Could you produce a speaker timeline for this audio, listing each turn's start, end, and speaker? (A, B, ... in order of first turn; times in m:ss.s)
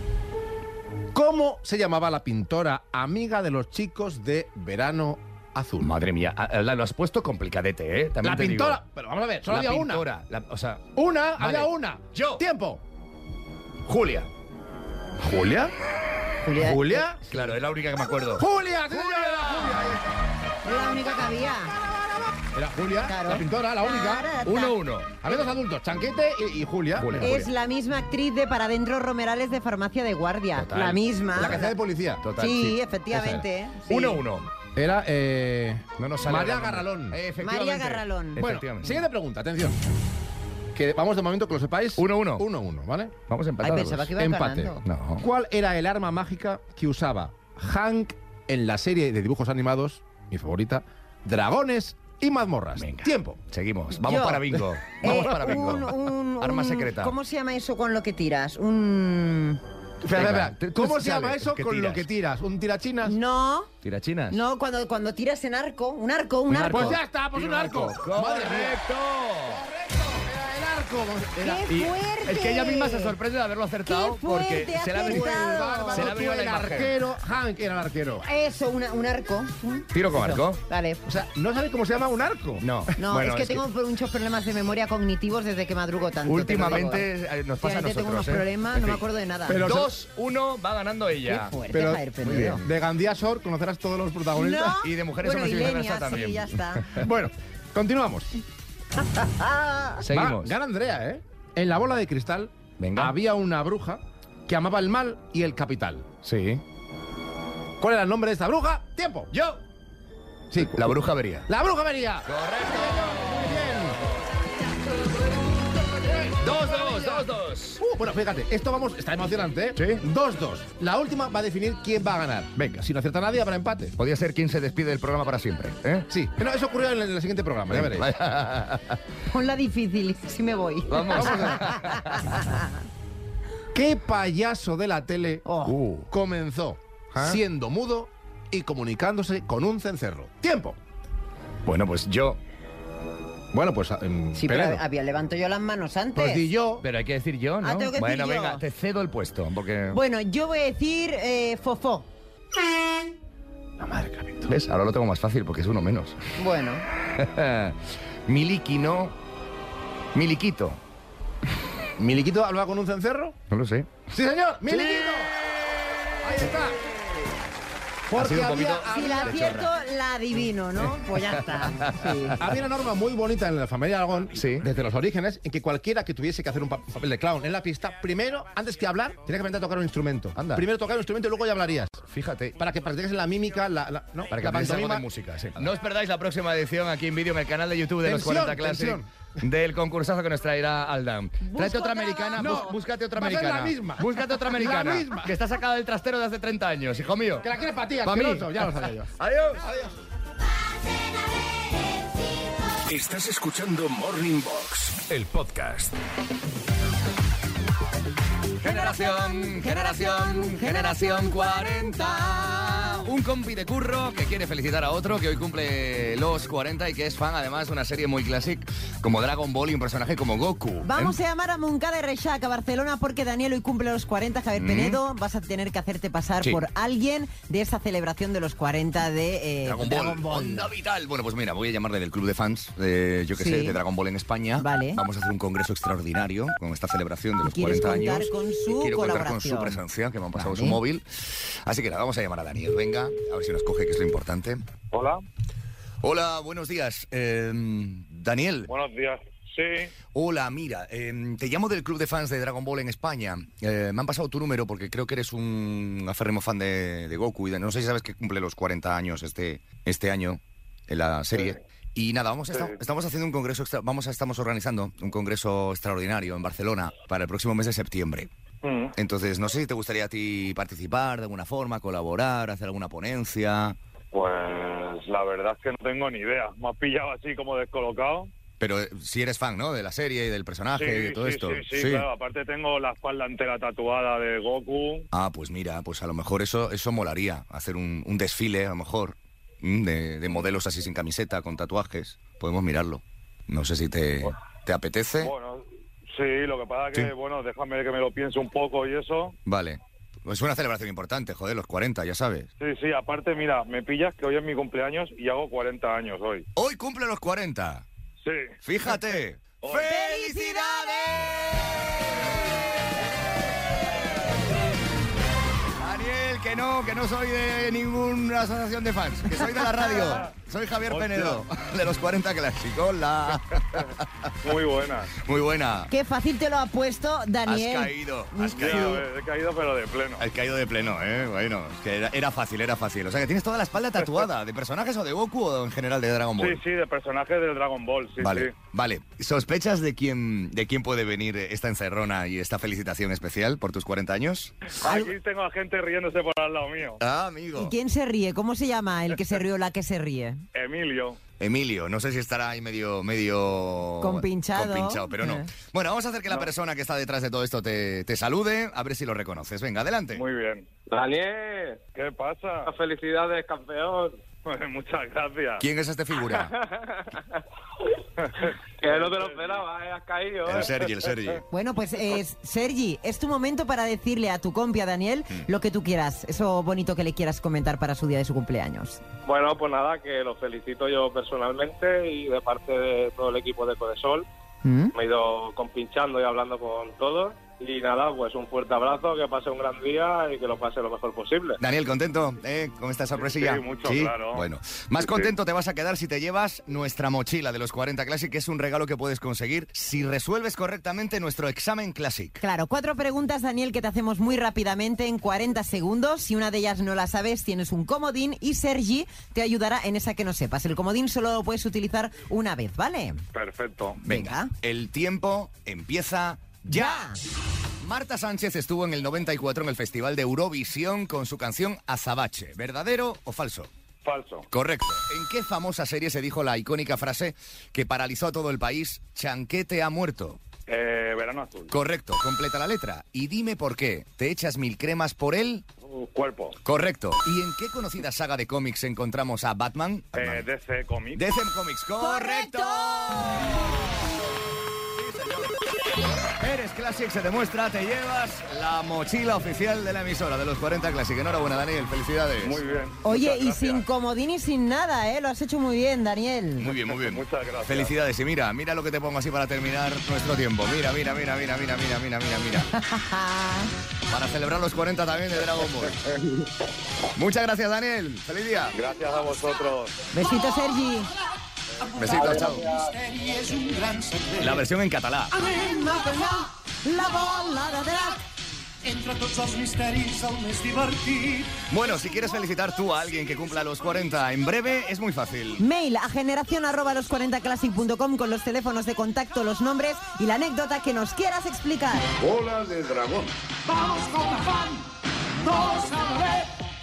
0:01.1-0:05.9 A
0:05.8-0:08.8 B
0:08.2-0:10.1 A
0:09.5-0:10.9 B
0:11.0-0:12.8 A
0:11.4-0:12.4 B
0:13.8-0:14.3 B
0:15.2-0:15.7 A
0:16.4-0:17.1 C
0:16.5-0:17.2 A
0:17.3-0:19.9 B
0:18.4-0:20.2 A
0:20.6-0:21.7 C
0:22.5-0:24.5 A
0:23.1-0:24.8 C
0:24.4-0:25.2 B
0:25.2-0:27.4 A
0:27.0-0:27.5 B
0:27.2-0:31.8 C
0:30.6-0:31.6 B
0:31.4-0:32.3 A
0:32.2-0:32.8 B
0:32.4-0:34.2 C
0:33.1-0:33.5 A
0:33.9-0:34.5 B
0:34.8-0:37.2 A
0:36.0-0:39.0 B
0:37.4-0:38.4 C
0:38.4-0:39.8 A
0:40.7-0:43.1 A
0:42.0-0:42.5 B
0:43.3-0:44.1 B
0:43.6-0:44.8 C
0:44.2-0:53.4 A
0:44.8-0:45.3 B
0:52.8-0:57.1 B
0:54.0-0:59.6 C
0:55.0-0:55.8 A
1:00.0-1:03.2 A
1:00.1-1:02.0 B
1:03.0-1:03.7 C
1:03.8-1:04.4 B
1:04.3-1:07.0 C
1:06.5-1:09.6 B
1:06.7-1:08.8 A
1:09.4-1:11.7 A
1:11.4-1:13.2 C
1:11.7-1:16.9 B
1:13.9-1:16.1 C
1:15.0-1:18.3 A
1:18.2-1:21.0 C
1:19.9-1:20.6 B
1:21.0-1:22.7 A
1:22.6-1:23.6 B
1:23.0-1:27.0 C
1:26.2-1:29.0 B
1:27.6-1:29.6 C
1:29.5-1:30.0 A
1:29.5-1:31.5 B
1:31.3-1:32.6 C
1:31.7-1:34.8 A
1:32.2-1:32.6 B
1:34.3-1:37.0 C
1:34.8-1:36.5 B
1:36.9-1:38.3 A
1:39.1-1:40.0 C
1:40.0-1:40.5 B
1:40.1-1:46.1 A
1:42.8-1:43.2 B
1:46.2-1:46.6 B
1:47.8-1:49.3 A
1:49.3-1:49.6 B
1:50.5-1:50.9 A
1:50.6-1:51.5 B
1:51.5-1:54.0 A
1:52.3-1:53.6 B
1:56.0-1:57.3 A
1:56.4-1:57.8 B
1:57.8-2:04.0 A
1:59.8-2:00.0 B
2:04.0-2:06.1 B
2:06.1-2:08.1 A
2:07.7-2:09.0 B
2:09.3-2:12.7 C
2:10.9-2:12.4 B
2:11.1-2:11.7 A
2:13.7-2:15.4 A
2:15.5-2:15.8 C
2:15.7-2:16.0 B
2:16.0-2:20.8 A
2:21.6-2:22.4 B
2:23.5-2:24.8 A
2:24.4-2:26.5 C
2:26.2-2:26.8 A
2:26.8-2:30.0 B
2:27.6-2:28.6 C
2:29.9-2:32.1 C
2:33.8-2:34.5 A
2:34.4-2:36.2 B
2:36.4-2:36.9 C
2:37.1-2:39.1 B
2:40.1-2:40.8 B
2:42.0-2:43.4 A
2:43.5-2:44.0 B
2:44.1-2:45.3 A
2:44.7-2:45.3 B
2:46.2-2:47.0 A
2:48.1-2:49.7 A
2:48.1-2:49.7 B
2:48.9-2:52.4 C
2:51.6-2:52.4 B
2:52.4-3:02.0 A
2:54.4-2:54.7 B
3:00.4-3:00.6 B
3:02.1-3:02.6 B
3:02.6-3:05.1 A
3:04.3-3:17.5 B
3:08.0-3:09.1 A
3:11.4-3:12.6 C
3:12.4-3:15.4 A
3:17.4-3:19.1 A
3:18.0-3:19.7 B
3:22.9-3:26.0 D
3:28.6-3:33.0 C
3:28.6-3:41.2 B
3:40.8-3:50.7 C
3:44.5-3:45.0 B
3:49.6-4:04.6 B
3:53.4-3:53.8 C
3:54.6-3:55.0 C
3:57.4-3:59.8 C
4:00.4-4:00.8 C
4:04.9-4:05.2 E
4:06.0-4:08.7 B
4:08.7-4:09.9 E
4:10.1-4:28.3 B
4:22.5-4:22.8 E
4:28.6-4:29.0 E
4:29.0-4:33.8 B
4:34.1-4:38.3 E
4:38.6-4:42.1 B
4:40.8-4:45.1 E
4:45.1-4:55.3 B
4:55.2-4:59.4 E
4:59.5-5:02.5 B
5:02.6-5:06.4 E
5:06.6-5:07.8 B
5:08.2-5:08.5 E
5:08.6-5:12.0 B
5:09.6-5:09.9 E
5:09.9-5:11.4 C
5:15.8-5:24.3 B
5:20.9-5:21.4 E
5:24.4-5:25.1 E
5:25.2-5:25.9 B
5:25.9-5:28.5 C
5:27.5-5:29.1 B
5:28.5-5:30.2 E
5:30.2-5:36.6 B
5:34.0-5:34.2 E
5:36.4-5:38.6 E
5:38.2-5:44.6 B
5:44.8-5:47.0 E
5:47.0-5:47.7 B
5:47.6-5:50.4 C
5:50.5-5:51.2 E
5:51.4-6:00.2 B
5:54.0-5:55.5 C
6:00.1-6:00.7 E
6:00.9-6:01.8 F
6:02.0-6:02.7 E
6:02.7-6:04.2 F
6:04.5-6:05.6 E
6:05.6-6:06.5 B
6:06.4-6:07.2 F
6:08.2-6:09.6 E
6:08.8-6:10.7 F
6:10.5-6:11.4 B
6:10.5-6:11.1 E
6:11.5-6:19.0 C
6:19.2-6:24.3 F
6:24.6-6:24.9 C
6:25.0-6:31.6 F
6:31.6-6:42.4 B
6:33.2-6:34.5 E
6:35.0-6:35.3 E
6:42.4-6:53.2 C
6:53.4-6:54.0 E
6:54.0-6:57.1 B
6:54.1-6:54.5 C
6:56.7-6:57.2 C
6:57.8-7:03.7 B
7:04.0-7:04.5 E
7:04.5-7:10.4 B
7:10.7-7:11.7 E
7:11.7-7:15.7 B
7:15.9-7:16.6 E
7:16.6-7:20.5 B
7:20.2-7:21.2 E
7:21.2-7:23.7 B
7:22.0-7:23.6 C
7:24.9-7:25.6 B
7:26.4-7:32.6 B
7:32.4-7:33.8 E
7:33.0-7:36.7 C
7:36.6-7:42.7 B
7:36.9-7:37.9 E
7:42.8-7:43.7 C
7:44.1-7:46.0 B
7:47.1-7:48.8 B
7:48.7-7:50.0 E
7:50.1-7:51.1 C
7:51.8-7:54.6 D
7:52.0-7:52.7 B
7:54.4-7:55.4 B
7:55.3-7:55.6 D
7:55.5-7:58.2 C
7:58.8-8:01.6 D
8:01.7-8:05.6 B
8:05.6-8:12.1 C
8:12.2-8:13.3 B
8:13.7-8:14.8 D
8:15.4-8:16.5 D